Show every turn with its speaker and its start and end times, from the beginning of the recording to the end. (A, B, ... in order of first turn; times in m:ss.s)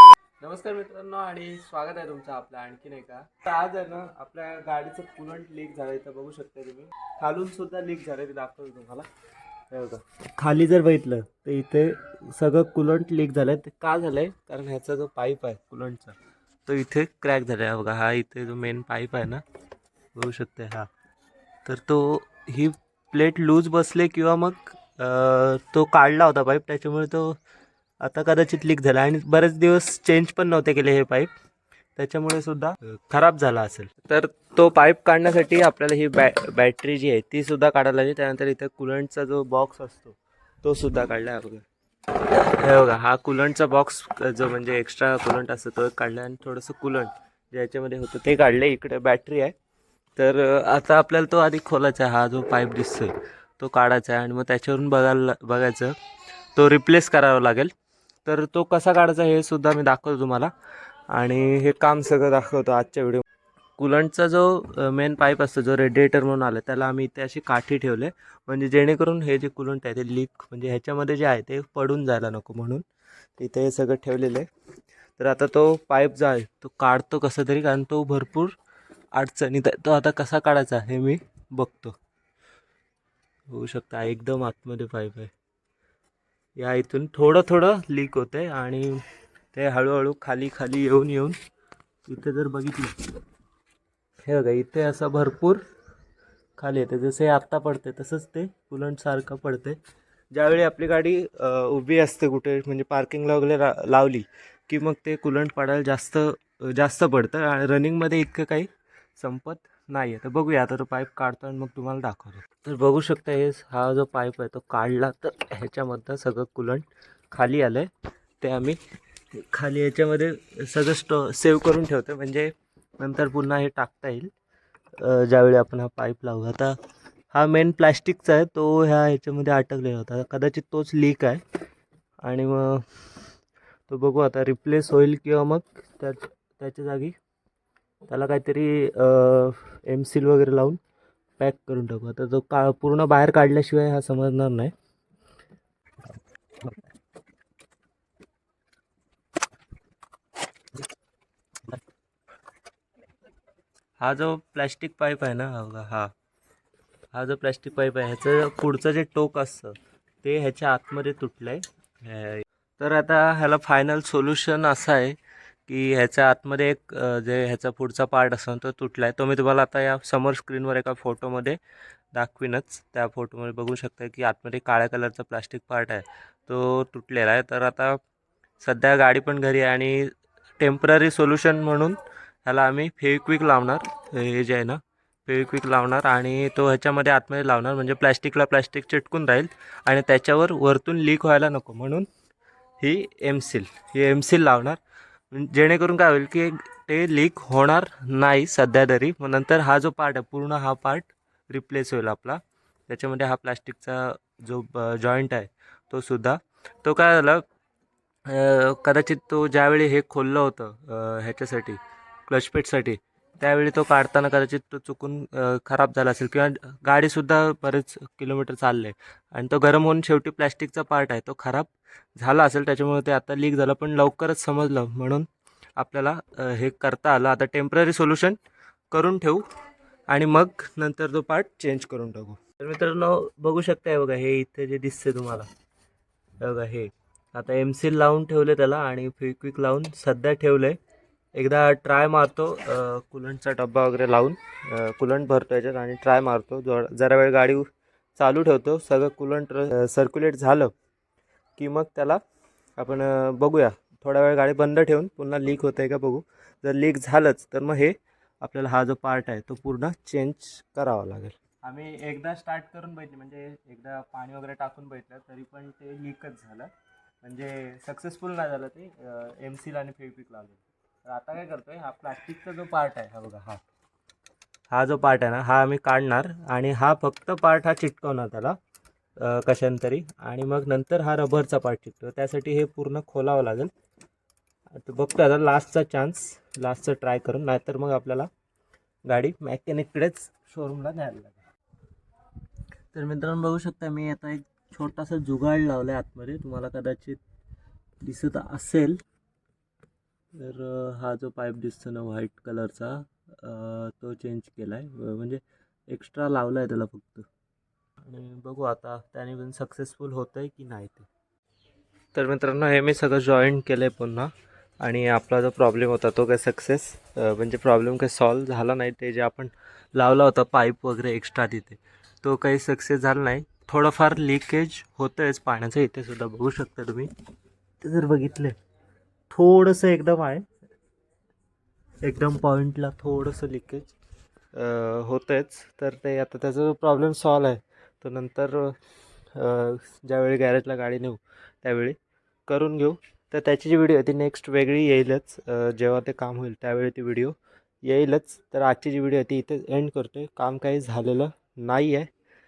0:00.4-0:09.1 A
0:09.7-0:19.4 A
0:20.1-0:20.9 A
0:21.6-0:27.4 A
0:28.0-0:31.3 A
0:32.0-0:41.6 A
0:42.2-0:49.5 A
0:50.2-0:56.0 A
0:56.5-0:57.7 A
0:58.2-1:00.5 A
1:01.1-1:03.2 A
1:03.8-1:12.8 A
1:13.4-1:14.5 A
1:15.2-1:18.6 A
1:19.1-1:22.0 A
1:23.5-1:25.3 A
1:26.6-1:29.0 A
1:29.5-1:31.4 A
1:32.1-1:33.0 A
1:34.2-1:35.6 A
1:36.6-1:39.8 A
1:40.3-1:57.9 A
1:58.4-1:58.8 A
1:59.3-2:04.3 A
2:05.0-2:06.7 A
2:07.3-2:11.4 A
2:12.2-2:12.8 A
2:13.9-2:17.2 A
2:18.1-2:20.8 A
2:21.4-2:24.7 A
2:34.0-2:36.1 A
2:37.1-2:51.6 A
2:52.1-2:58.0 A
2:58.6-3:12.0 A
3:12.8-3:14.8 A
3:15.3-3:27.4 A
3:28.3-3:48.4 A
3:48.9-3:49.4 A
3:50.1-3:55.5 A
3:56.4-4:00.8 A
4:01.3-4:07.6 A
4:08.2-4:10.7 A
4:11.6-4:12.2 A
4:12.8-4:26.7 A
4:27.2-4:33.6 A
4:34.7-4:38.6 A
4:39.2-4:43.7 A
4:44.7-4:48.3 A
4:49.0-4:51.4 A
4:52.9-4:57.2 A
4:58.0-4:59.0 A
5:00.3-5:07.3 A
5:08.0-5:11.1 A
5:12.1-5:14.3 A
5:14.8-5:27.1 A
5:27.8-5:28.5 A
5:29.3-5:30.4 A
5:32.0-5:33.9 A
5:34.5-5:38.8 A
5:39.3-5:42.0 A
5:42.5-5:52.1 A